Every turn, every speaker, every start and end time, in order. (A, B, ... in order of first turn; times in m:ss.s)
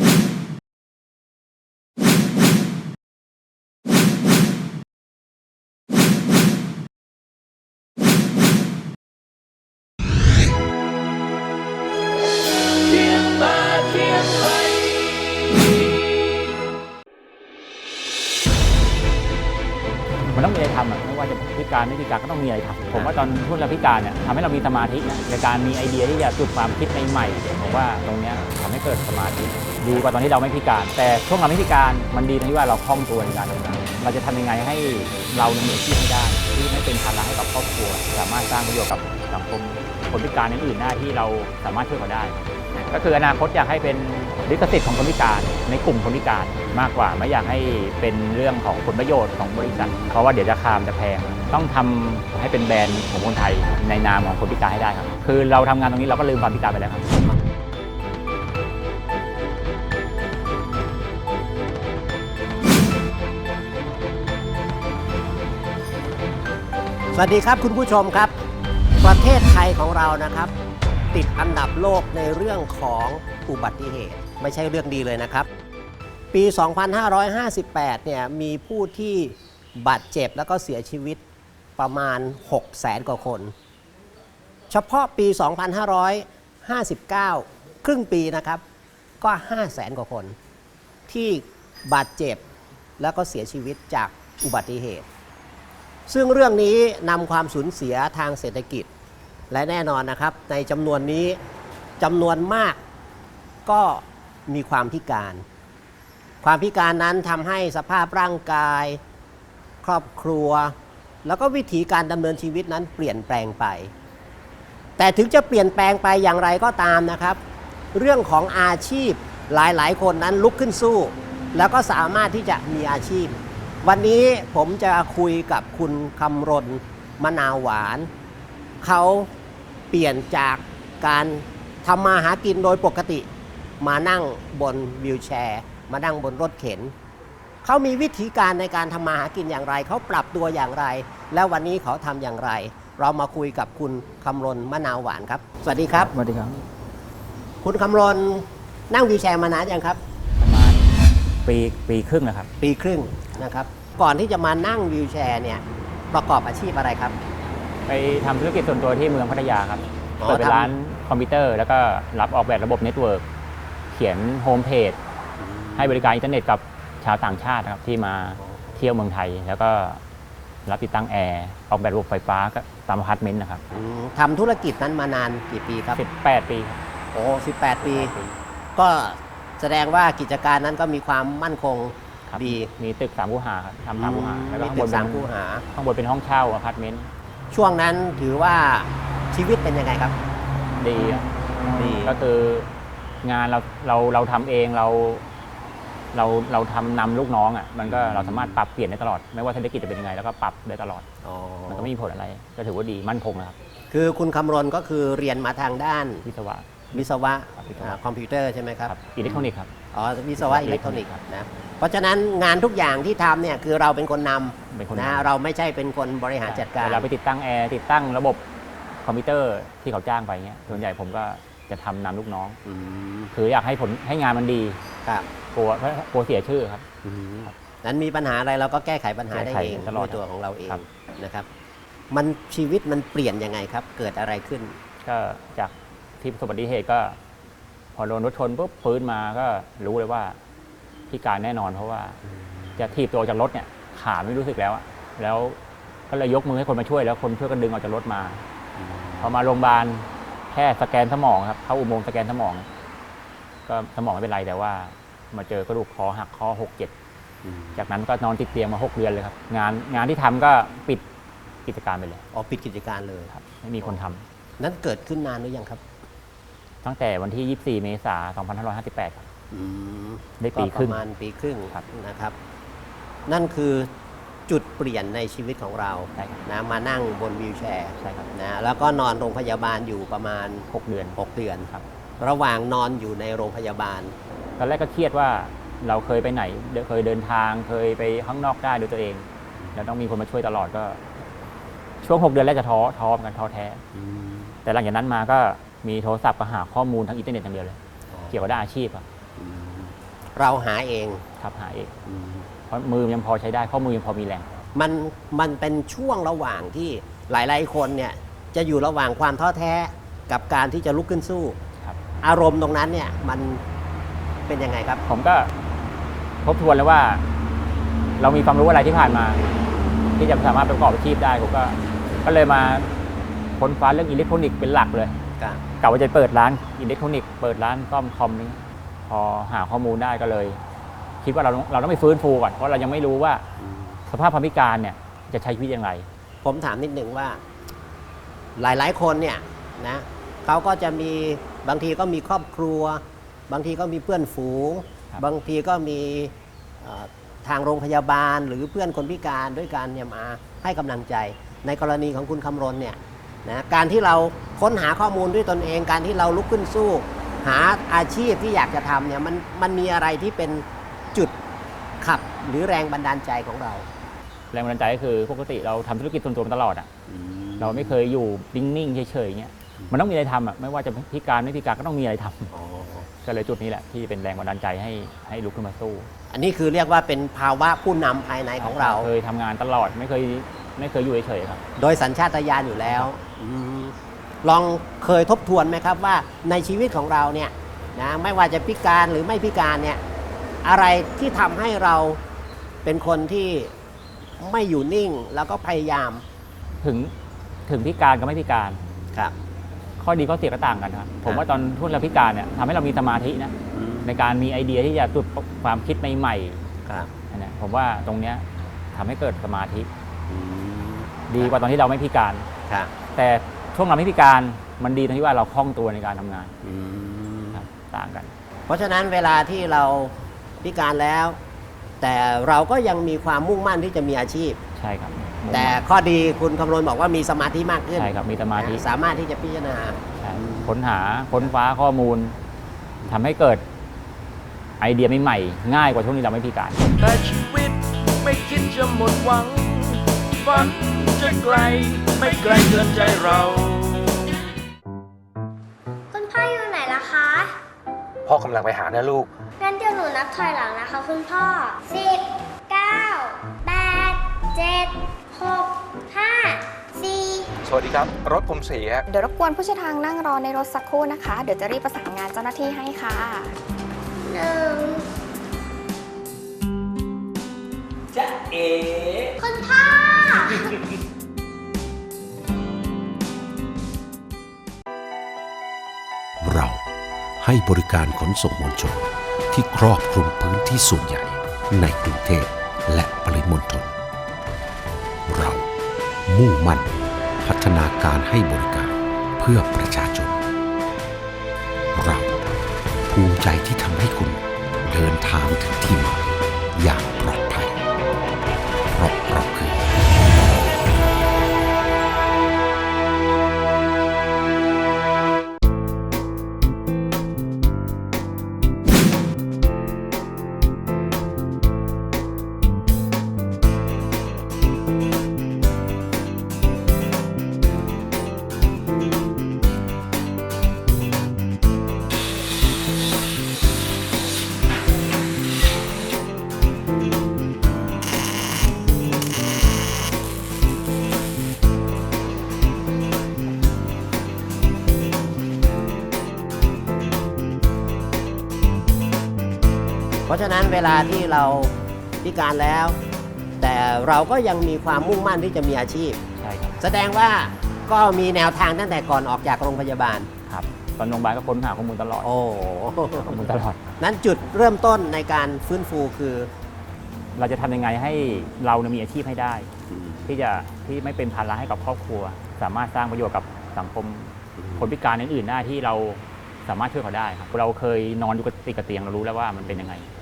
0:12.9-0:14.7 A
0:20.3-0:57.2 B
0:22.9-0:23.1 C
0:49.7-0:50.2 C
1:07.1-1:08.4 C
1:09.0-1:10.5 C
1:11.1-1:15.5 C
1:16.3-1:21.2 C
1:21.8-1:23.5 C
1:24.7-1:28.6 C
1:29.2-1:30.4 C
1:31.1-1:32.4 C
1:33.0-1:35.1 C
1:36.1-1:38.9 C
1:39.5-1:41.4 C
1:42.0-1:42.8 C
1:43.7-1:45.4 C
1:46.4-1:49.0 C
1:49.8-1:53.9 C
1:55.0-1:57.4 C
1:57.9-2:08.1 C
2:08.8-2:09.3 C
2:09.9-2:13.3 C
2:13.8-2:16.9 C
2:17.6-2:26.1 C
2:25.9-2:26.6 B
2:27.6-2:30.0 C
2:30.4-2:32.5 B
2:32.6-2:37.2 C
2:37.9-2:43.2 B
2:40.2-2:40.7 C
2:43.9-2:45.0 B
2:45.4-2:46.1 C
2:45.8-2:50.0 B
2:48.4-2:48.8 C
2:50.7-2:53.6 B
2:53.7-2:56.0 C
2:55.9-2:56.8 B
2:57.1-2:58.2 C
2:57.8-2:58.4 B
2:58.8-3:02.7 C
3:02.3-3:07.1 B
3:03.9-3:05.6 C
3:07.5-3:10.2 C
3:10.8-3:11.2 B
3:11.7-3:12.2 C
3:12.0-3:12.7 B
3:13.2-3:15.2 B
3:16.1-3:21.1 B
3:17.8-3:18.6 C
3:21.2-3:21.9 C
3:21.7-3:23.6 B
3:23.9-3:26.2 C
3:26.2-3:28.0 B
3:26.9-3:37.1 C
3:28.9-3:29.7 B
3:30.4-3:31.2 B
3:34.7-3:35.3 B
3:36.5-3:38.4 B
3:39.0-3:42.6 B
3:42.6-3:43.3 C
3:43.3-3:44.8 B
3:45.5-3:46.9 B
3:47.0-3:51.5 C
3:49.3-3:50.8 B
3:52.1-3:54.8 C
3:55.0-3:57.2 B
3:58.0-4:00.4 B
4:01.1-4:02.2 B
4:02.3-4:02.8 C
4:02.8-4:05.6 B
4:06.1-4:08.4 B
4:08.8-4:09.3 C
4:09.2-4:12.7 B
4:13.7-4:16.9 B
4:17.4-4:17.8 C
4:17.8-4:21.0 B
4:21.7-4:22.2 B
4:22.3-4:23.3 C
4:23.3-4:24.2 B
4:24.6-4:25.8 C
4:26.8-4:29.3 B
4:29.5-4:32.4 C
4:30.4-4:31.0 B
4:33.3-4:33.9 C
4:34.5-4:41.7 C
4:36.2-4:36.4 B
4:38.0-4:38.3 B
4:40.7-4:41.2 B
4:42.2-4:44.2 C
4:44.6-4:51.0 B
4:52.0-4:53.8 B
4:53.9-4:54.6 C
4:54.6-4:57.8 B
4:58.1-4:58.4 C
4:58.3-4:59.0 B
4:59.4-5:01.2 C
5:01.4-5:01.9 B
5:02.1-5:02.5 C
5:02.7-5:04.6 B
5:04.8-5:11.6 C
5:12.2-5:13.6 C
5:14.5-5:15.0 C
5:15.1-5:15.5 B
5:16.4-5:17.2 B
5:18.2-5:19.4 B
5:20.2-5:22.9 B
5:23.6-5:25.2 B
5:25.8-5:30.6 B
5:31.2-5:33.5 B
5:33.6-5:34.0 C
5:34.1-5:36.1 B
5:36.4-5:37.4 C
5:38.6-6:01.4 C
6:02.0-6:03.9 C
6:04.5-6:06.9 B
6:07.1-6:08.0 C
6:07.6-6:12.5 B
6:12.5-6:13.1 C
6:13.2-6:16.1 B
6:16.3-6:19.1 C
6:18.6-6:21.6 B
6:21.8-6:30.0 C
6:30.6-6:32.2 C
6:32.8-6:33.7 C
6:34.4-6:36.2 C
6:36.8-6:37.1 B
6:37.7-6:38.8 B
6:40.0-6:43.5 B
6:43.7-6:44.1 C
6:44.0-6:46.6 B
6:46.8-6:47.1 C
6:47.3-6:49.9 B
6:50.3-6:51.6 C
6:51.3-6:52.5 B
6:53.2-6:56.5 B
6:56.6-6:57.6 C
6:57.5-6:58.3 B
6:58.7-7:01.4 C
7:02.0-7:04.6 C
7:04.8-7:05.8 B
7:05.5-7:10.7 C
7:08.0-7:08.8 B
7:10.2-7:12.4 B
7:13.1-7:13.6 B
7:14.8-7:16.8 B
7:17.0-7:24.2 A
7:26.1-7:27.6 D
7:28.3-7:29.3 E
7:29.6-7:37.6 D
7:37.6-7:39.0 E
7:39.1-7:43.6 F
7:44.2-7:45.0 D
7:48.2-7:49.3 E
7:49.4-7:50.8 D
7:56.4-7:56.8 G
7:57.4-8:03.9 G
8:05.3-8:05.6 G
8:06.3-8:06.9 G
8:07.4-8:10.4 G
8:11.9-8:12.4 G
8:13.1-8:16.2 G
8:16.8-8:17.8 G
8:19.0-8:19.8 G
9:00.3-9:03.0 C
9:03.6-9:06.2 C
9:06.4-9:06.8 B
9:06.8-9:10.3 C
9:10.5-9:12.3 B
9:12.2-9:16.5 C
9:13.1-9:13.8 B
9:17.4-9:19.7 B
9:19.9-9:20.3 C
9:20.3-9:30.1 B
9:24.6-9:24.9 C
9:29.6-9:29.9 C